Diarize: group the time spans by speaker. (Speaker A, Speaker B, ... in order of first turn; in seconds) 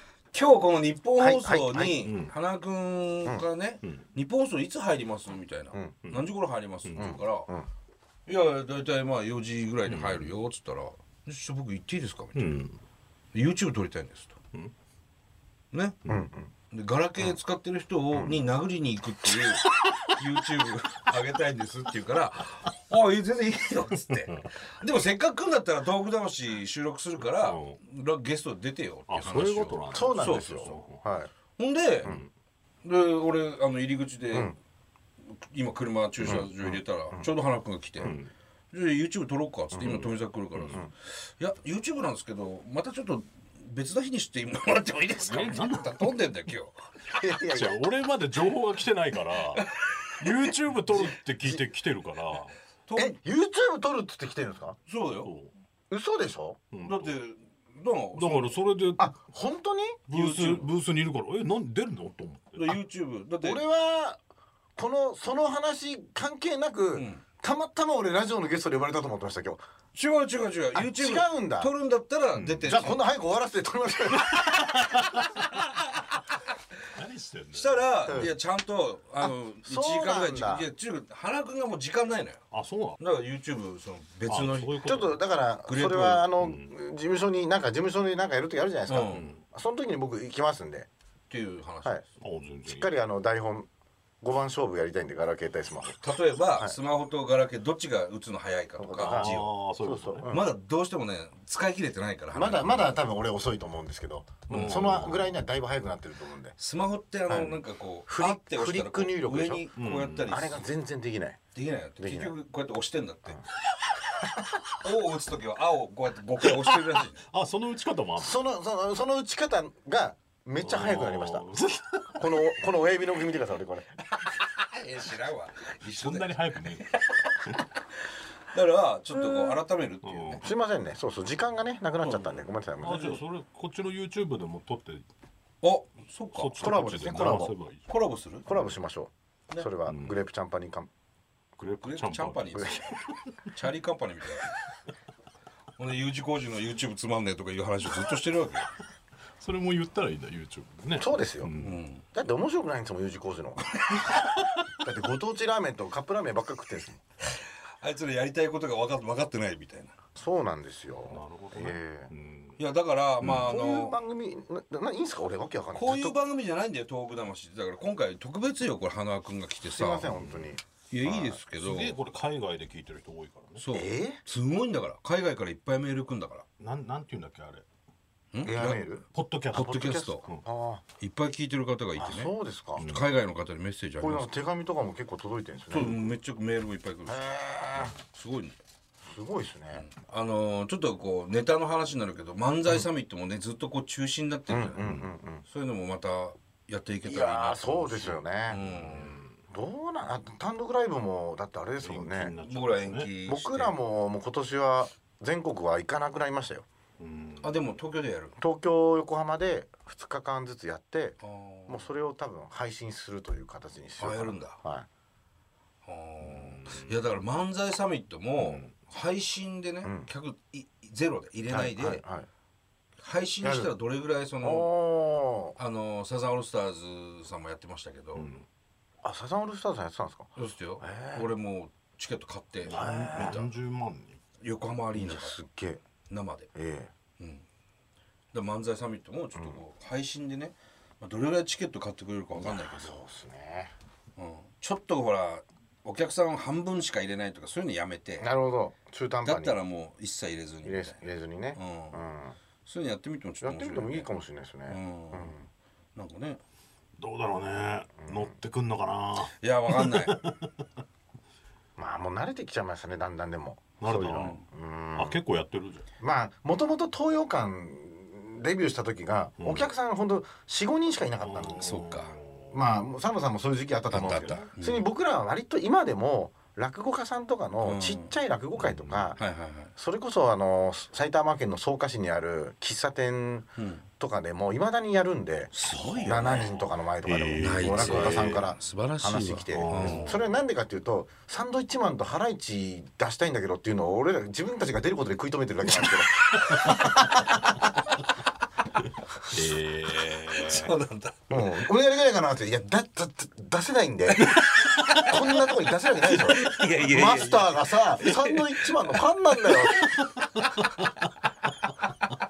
Speaker A: 0.3-7.5, 8.3-12.6, 13.3-14.4, 15.7-16.0, 16.7-30.8, 31.6-32.1, 32.8-34.5, 35.3-38.2, 38.7-46.8, 49.5-50.3, 52.9-53.2, 54.9-55.3, 56.9-58.6, 60.1-60.7, 62.6-63.6, 66.9-67.2, 69.9-73.0, 77.5-82.4, 83.0-84.8, 85.7-86.3, 88.9-89.2, 91.3-92.0, 96.0-99.5, 100.3-103.0, 104.5-105.1, 106.6-110.7, 111.5-113.4, 114.7-117.2, 124.1-126.3, 126.9-127.7, 128.5-130.4, 132.0-133.2, 135.6-136.8, 137.9-138.5, 141.6-144.6, 145.8-148.7, 151.6-152.1, 153.8-154.3, 157.3-159.9, 162.6-164.0, 165.7-170.1, 170.9-172.0, 173.6-176.5, 178.3-178.8, 179.5-180.2, 181.0-184.3, 185.7-188.6, 189.7-194.8, 195.4-199.2, 202.4-203.8, 207.4-208.4, 211.2-211.9, 214.0-214.6, 215.8-222.0, 223.0-224.7, 225.6-228.3, 230.4-233.5, 234.4-235.4, 236.1-236.5, 237.2-237.4, 238.3-243.0, 244.2-248.3, 249.2-252.0, 252.7-254.1, 254.7-255.3, 255.9-256.4, 259.3-260.2, 264.1-264.4, 271.6-272.1, 273.9-274.9, 277.6-278.1, 279.2-279.7, 283.6-283.9, 285.5-286.6, 287.4-290.1, 296.5-297.3, 300.1-301.7, 304.2-305.5, 306.1-308.7, 310.6-310.9
Speaker B: 1.2-2.0, 7.0-7.7, 16.1-16.5, 18.1-18.4, 29.9-31.3, 34.3-34.6, 36.3-36.5, 39.7-40.1, 47.2-47.8, 53.0-54.8, 55.9-56.6, 59.0-60.0, 63.4-64.2, 64.8-69.6, 70.8-71.7, 72.7-75.2, 78.1-78.3, 79.2-80.7, 84.8-90.9, 92.7-93.7, 94.2-96.1, 98.8-100.5, 102.3-106.6, 107.3-109.7, 110.3-111.4, 112.0-112.3, 118.2-121.5, 122.2-123.9, 130.4-133.2, 136.6-137.5, 138.5-140.9, 142.6-142.8, 151.0-151.5, 152.1-153.6, 154.8-157.0, 160.2-162.1, 163.5-166.2, 169.6-171.4, 173.7-174.2, 178.4-180.8, 182.0-182.9, 184.0-186.0, 187.1-188.0, 189.0-189.9, 194.5-195.4, 197.0-198.6, 199.5-202.3, 203.2-206.7, 208.4-214.9, 219.8-220.1, 221.5-222.3, 223.4-223.7, 224.4-225.6, 229.0-231.3, 232.7-233.4, 234.9-235.8, 236.6-236.9, 242.4-243.7, 248.2-249.6, 250.6-252.3, 253.4-255.5, 258.0-258.3, 261.8-265.2, 266.0-271.8, 272.5-279.2, 279.8-297.7, 301.3-304.3, 305.1-310.1
Speaker C: 2.0-2.3, 6.8-7.2, 9.8-10.3, 12.3-12.8, 27.4-27.8, 29.1-31.0, 32.0-32.3, 36.2-36.5, 38.0-38.3, 39.8-40.8, 45.2-46.1, 47.5-49.6, 50.2-52.5, 55.2-55.5, 56.7-57.1, 58.1-59.2, 60.1-62.8, 72.3-72.9, 74.7-75.5, 76.9-78.3, 82.5-83.0, 84.3-85.2, 86.4-86.8, 89.1-89.4, 92.2-92.9, 99.0-100.3, 104.5-105.3, 109.8-110.5, 116.4-118.4, 120.6-122.3, 125.8-127.6, 130.0-130.4, 132.8-135.1, 136.3-137.9, 139.9-140.2, 141.6-143.4, 149.4-151.8, 161.1-162.6, 163.2-163.5, 170.1-170.5, 171.5-173.6, 176.6-177.7, 179.1-180.4, 182.8-183.1, 198.5-199.3, 201.8-203.1, 207.0-207.5, 216.3-216.9, 218.4-218.7, 228.2-228.4, 232.6-234.2, 257.0-260.5, 263.8-264.4, 264.9-265.9, 269.4-269.7, 271.2-272.6, 273.9-274.5, 278.6-279.1, 287.0-288.5, 289.5-290.3, 299.3-300.7